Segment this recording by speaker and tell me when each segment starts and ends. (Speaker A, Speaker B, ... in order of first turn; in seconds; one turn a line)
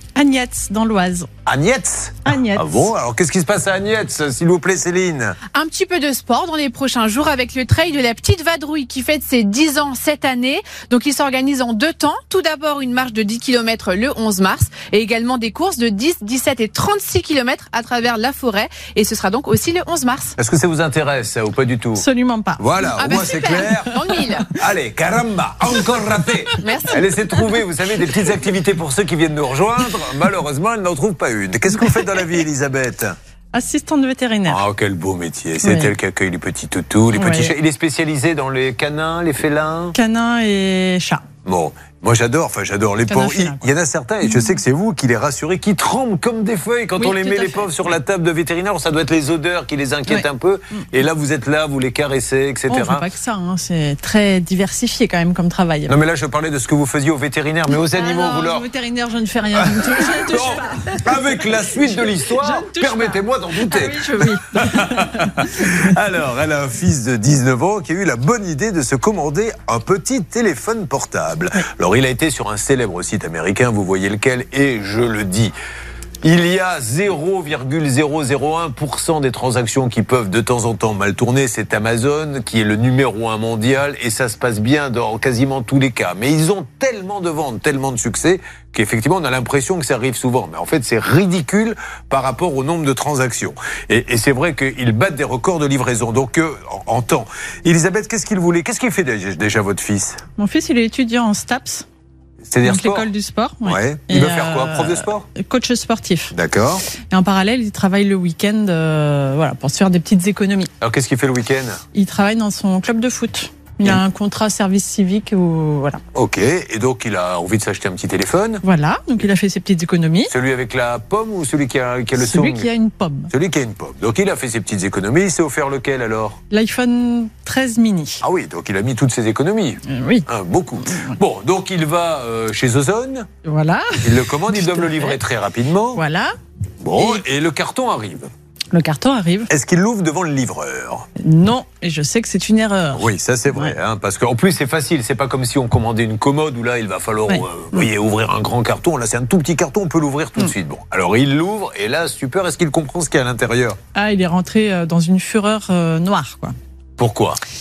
Speaker A: 0.2-1.3
Speaker B: 1.5-5.4
Speaker A: 2.2-2.7
Speaker C: 5.5-20.3
Speaker B: 20.4-22.0
Speaker A: 22.0-22.7
Speaker B: 22.6-33.2
Speaker C: 23.0-24.6
Speaker C: 26.6-27.1
Speaker A: 33.5-34.6
Speaker B: 34.5-40.0
Speaker A: 35.6-35.9
Speaker A: 37.1-37.5
Speaker A: 39.9-41.2
Speaker B: 41.5-53.1
Speaker A: 43.1-43.7
Speaker A: 47.0-47.7
Speaker A: 50.1-50.8
Speaker A: 52.7-55.9
Speaker B: 55.9-58.6
Speaker A: 57.9-61.1
Speaker B: 59.6-75.5
Speaker A: 61.7-65.3
Speaker B: 76.2-100.2
Speaker A: 100.4-101.9
Speaker B: 102.5-103.1
Speaker A: 102.6-106.3
Speaker B: 103.7-105.3
Speaker B: 106.3-106.8
Speaker A: 107.1-110.7
Speaker B: 110.8-111.8
Speaker A: 111.9-116.0
Speaker B: 116.1-118.6
Speaker A: 118.6-120.3
Speaker B: 120.3-122.7
Speaker A: 122.2-123.3
Speaker B: 123.3-126.4
Speaker A: 126.5-128.2
Speaker B: 128.2-133.3
Speaker A: 129.9-130.3
Speaker A: 130.8-131.2
Speaker A: 133.4-135.2
Speaker B: 134.0-136.0
Speaker A: 135.9-136.3
Speaker B: 136.8-138.3
Speaker A: 138.7-139.5
Speaker B: 139.5-141.1
Speaker A: 141.2-143.8
Speaker B: 142.9-153.8
Speaker A: 147.3-147.8
Speaker A: 153.9-156.6
Speaker B: 157.0-157.4